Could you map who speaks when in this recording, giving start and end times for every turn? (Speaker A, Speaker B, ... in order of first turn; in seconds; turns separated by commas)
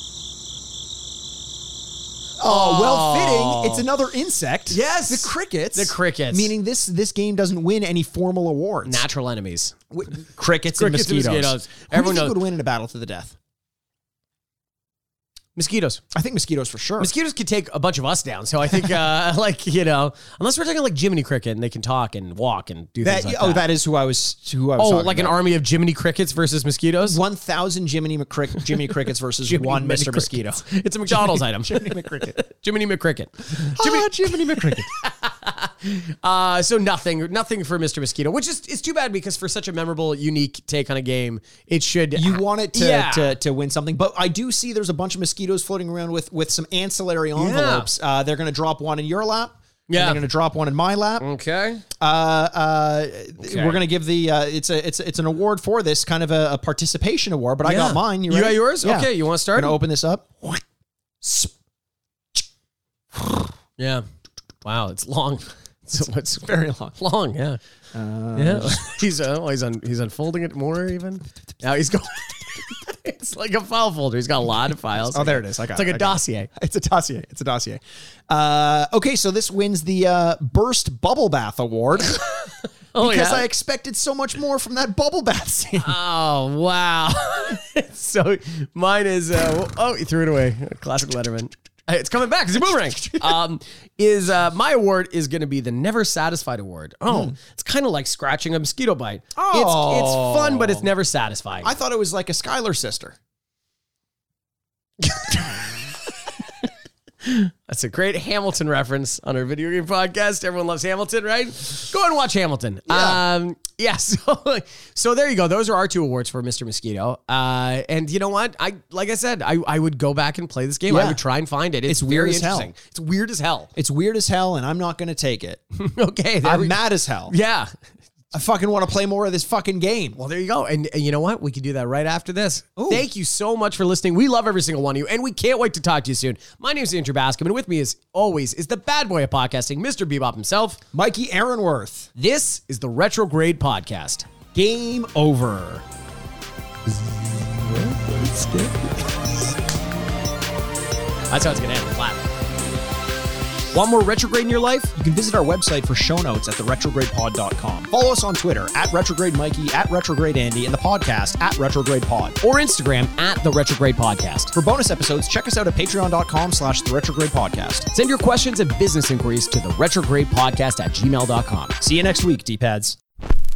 Speaker A: 2.4-9.1, Speaker B: 2.4-3.9, Speaker B: 4.7-6.5, Speaker B: 8.9-9.8, Speaker A: 9.9-13.4, Speaker B: 10.8-12.4, Speaker B: 15.6-16.0, Speaker A: 16.1-17.1, Speaker B: 17.0-23.7, Speaker A: 23.0-25.4, Speaker B: 24.8-27.2, Speaker A: 27.1-32.4, Speaker B: 29.4-43.4, Speaker A: 33.7-34.9, Speaker A: 42.1-51.3, Speaker B: 47.4-47.9, Speaker B: 49.9-50.2, Speaker B: 51.2-51.8, Speaker A: 52.0-60.6, Speaker B: 53.4-53.8, Speaker B: 57.6-59.8, Speaker A: 61.2-61.5, Speaker A: 63.1-63.5, Speaker B: 63.8-64.0, Speaker B: 64.6-67.6, Speaker A: 66.0-67.0, Speaker A: 67.9-69.0, Speaker B: 68.3-76.5, Speaker A: 75.1-82.2, Speaker B: 82.1-83.5, Speaker A: 83.0-86.0, Speaker B: 85.8-101.8, Speaker A: 93.1-93.4, Speaker A: 97.1-97.4, Speaker A: 99.4-100.9, Speaker A: 101.6-103.2, Speaker B: 105.0-105.9, Speaker A: 105.2-105.8, Speaker B: 107.2-123.7, Speaker A: 112.9-113.2, Speaker A: 120.9-121.2, Speaker A: 121.9-122.7, Speaker A: 123.8-125.6, Speaker B: 125.8-127.7, Speaker A: 126.4-127.3, Speaker A: 128.3-130.2, Speaker B: 130.2-140.8, Speaker A: 132.8-133.1, Speaker A: 140.9-142.1, Speaker B: 142.2-144.3, Speaker A: 144.5-145.8, Speaker A: 147.6-149.5, Speaker B: 151.3-152.3, Speaker B: 153.7-154.9, Speaker A: 154.9-162.4, Speaker B: 162.4-164.6, Speaker A: 164.6-167.9, Speaker B: 167.9-171.8, Speaker A: 171.8-173.0